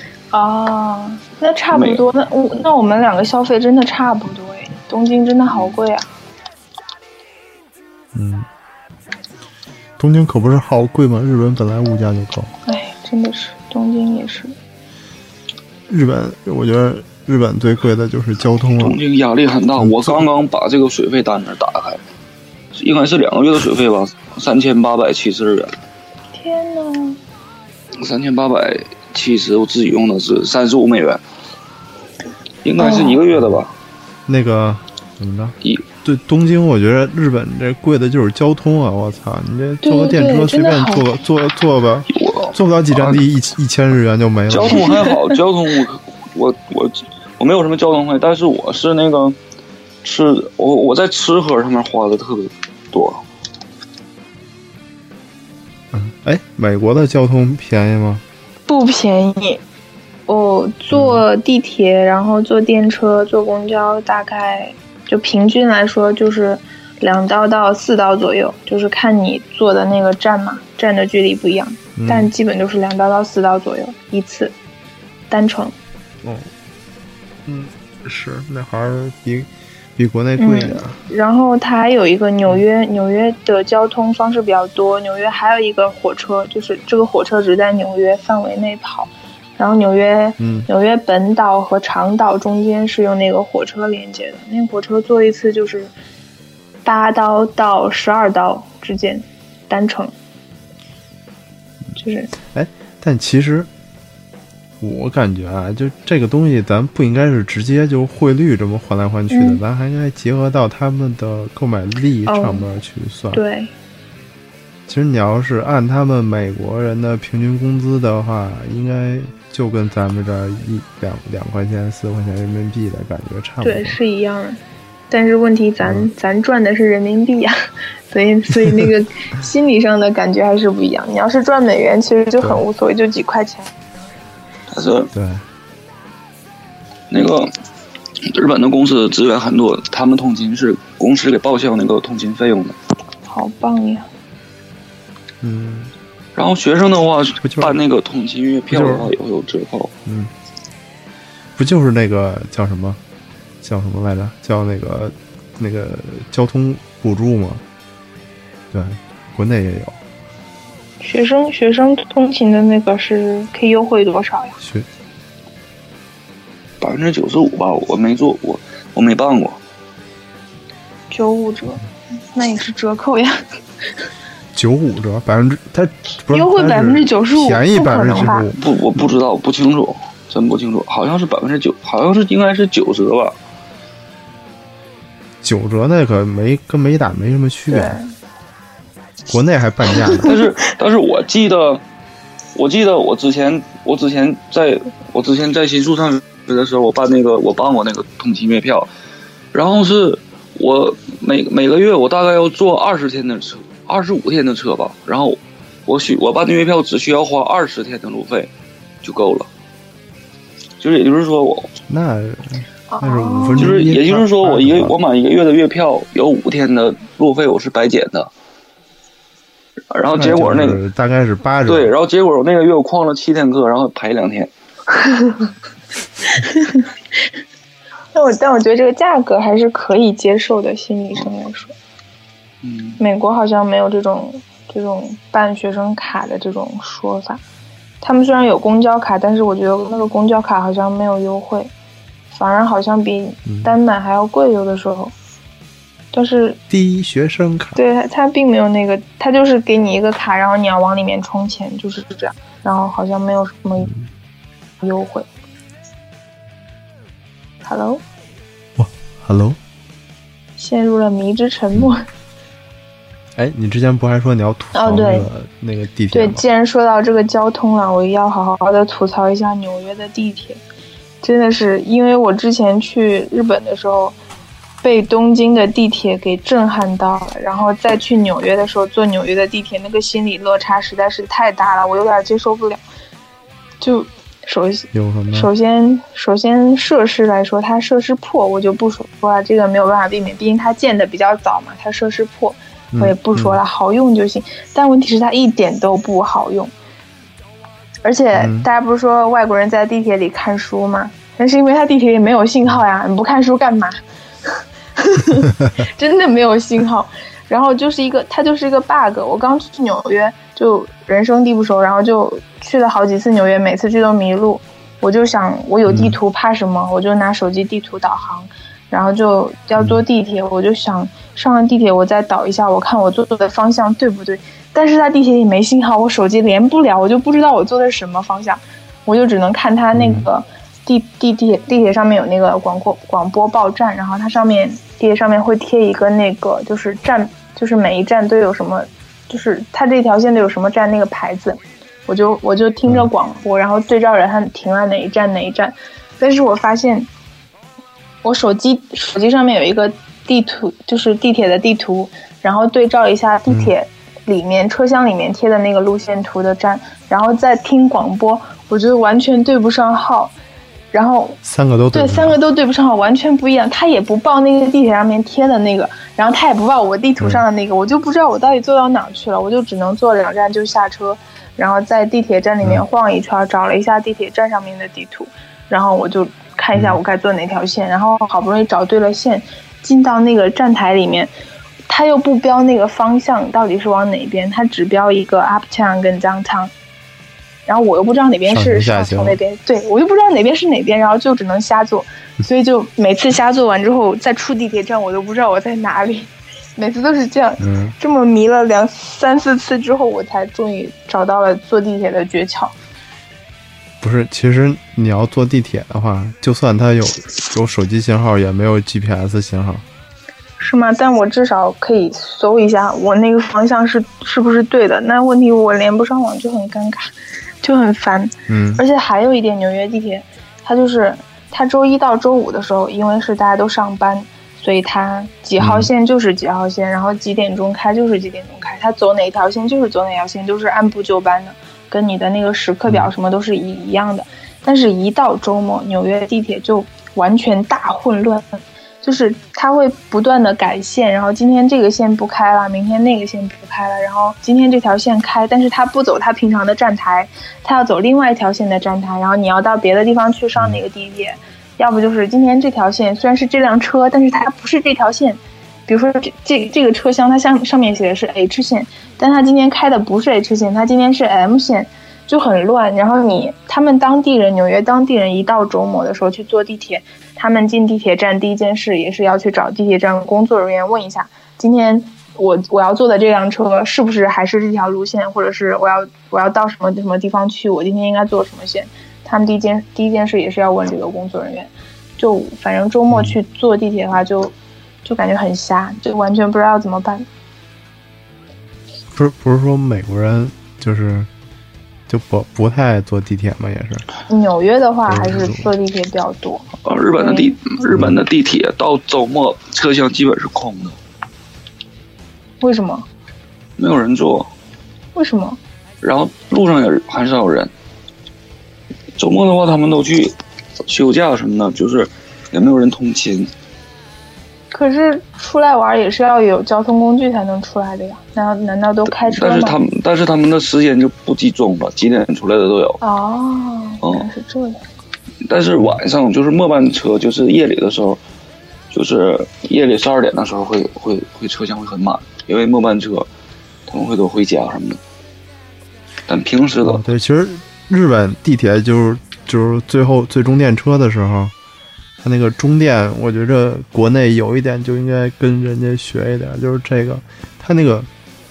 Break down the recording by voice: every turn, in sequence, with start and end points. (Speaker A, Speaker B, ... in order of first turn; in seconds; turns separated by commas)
Speaker A: 0.3-6.1, Speaker B: 1.7-2.0, Speaker C: 8.1-8.5, Speaker C: 10.0-12.5, Speaker A: 12.7-14.5, Speaker C: 15.9-19.0, Speaker B: 18.8-22.0, Speaker C: 19.8-20.2, Speaker B: 22.7-25.7, Speaker A: 26.3-27.2, Speaker B: 28.0-31.2, Speaker B: 32.6-33.7, Speaker A: 32.8-33.2, Speaker C: 33.3-33.6, Speaker C: 34.3-45.0, Speaker A: 39.8-41.1, Speaker B: 42.1-43.2, Speaker B: 44.5-49.4, Speaker A: 44.7-45.3, Speaker B: 50.0-53.2, Speaker C: 55.9-58.2, Speaker A: 58.7-59.6, Speaker A: 60.3-74.5, Speaker C: 60.9-61.2, Speaker C: 72.0-72.3, Speaker A: 75.3-75.7, Speaker C: 76.2-76.5, Speaker C: 77.5-81.0, Speaker A: 80.4-95.9, Speaker C: 90.4-90.7, Speaker A: 96.8-100.1, Speaker A: 102.0-102.3, Speaker C: 102.5-103.7, Speaker C: 104.8-113.4, Speaker A: 109.3-109.6, Speaker A: 112.3-112.7, Speaker A: 113.3-113.7, Speaker C: 114.9-124.0, Speaker A: 123.6-124.6, Speaker A: 125.1-127.5, Speaker C: 125.8-126.1, Speaker A: 128.1-133.7, Speaker B: 134.7-135.1, Speaker C: 135.1-135.4, Speaker B: 137.1-137.5, Speaker B: 138.2-142.8, Speaker A: 143.3-144.1, Speaker C: 145.4-145.9, Speaker B: 146.3-149.9, Speaker C: 147.4-147.7, Speaker C: 148.7-149.1, Speaker C: 150.1-150.3, Speaker C: 151.6-153.0, Speaker C: 153.6-157.6, Speaker C: 158.7-159.9, Speaker A: 161.0-164.6, Speaker C: 164.6-164.9, Speaker B: 166.8-169.6, Speaker A: 171.1-173.4, Speaker C: 174.5-178.6, Speaker A: 176.3-178.5, Speaker B: 178.1-183.3, Speaker C: 185.4-188.0, Speaker A: 187.7-188.1, Speaker C: 189.3-190.3, Speaker A: 190.0-190.4, Speaker B: 190.2-191.8, Speaker B: 192.5-198.9, Speaker B: 199.5-208.5, Speaker B: 209.0-209.5, Speaker B: 210.8-211.7, Speaker C: 211.9-214.9, Speaker A: 212.9-213.8, Speaker B: 213.6-218.3, Speaker B: 219.9-220.8, Speaker C: 220.2-221.9, Speaker B: 221.7-224.5, Speaker A: 225.0-225.5, Speaker A: 226.4-226.8, Speaker A: 228.1-231.7, Speaker B: 232.6-233.0, Speaker A: 233.0-237.4, Speaker A: 238.0-241.7, Speaker A: 242.3-245.1, Speaker C: 243.4-243.7, Speaker A: 246.1-246.6, Speaker C: 246.7-247.8, Speaker A: 247.8-253.9, Speaker A: 254.8-255.3, Speaker A: 257.6-258.0, Speaker C: 258.8-259.6, Speaker A: 260.6-262.0, Speaker C: 263.4-266.4, Speaker A: 264.7-265.3, Speaker A: 266.1-270.6, Speaker A: 271.2-274.1, Speaker A: 274.8-282.8, Speaker A: 283.8-296.7, Speaker C: 284.9-285.5, Speaker C: 292.9-293.6, Speaker A: 298.0-304.0, Speaker C: 298.4-298.7, Speaker A: 304.5-347.1, Speaker C: 315.9-316.2, Speaker C: 329.9-330.3, Speaker A: 348.2-360.3, Speaker C: 353.5-353.7, Speaker A: 360.9-361.4, Speaker C: 361.4-362.4, Speaker A: 361.9-381.3, Speaker C: 376.7-377.0, Speaker A: 381.9-386.7, Speaker A: 387.6-402.7, Speaker C: 388.5-389.4, Speaker C: 397.6-397.9, Speaker C: 404.0-409.8, Speaker A: 410.6-417.1, Speaker A: 417.6-487.2, Speaker C: 418.5-418.8, Speaker C: 425.6-425.9, Speaker C: 483.1-483.4, Speaker C: 489.1-491.3, Speaker C: 492.1-494.0, Speaker A: 494.3-497.6, Speaker C: 495.1-495.7, Speaker B: 496.8-501.0, Speaker C: 497.9-498.2, Speaker A: 502.6-503.1, Speaker B: 503.8-504.5, Speaker A: 505.1-505.6, Speaker B: 506.0-507.7, Speaker B: 509.2-510.4, Speaker B: 510.9-513.5, Speaker A: 514.7-519.8, Speaker B: 519.1-523.0, Speaker A: 523.0-524.8, Speaker B: 524.0-524.3, Speaker B: 525.4-528.2, Speaker B: 528.9-533.3, Speaker B: 533.9-535.0, Speaker B: 536.3-537.0, Speaker C: 536.8-541.5, Speaker C: 542.2-548.1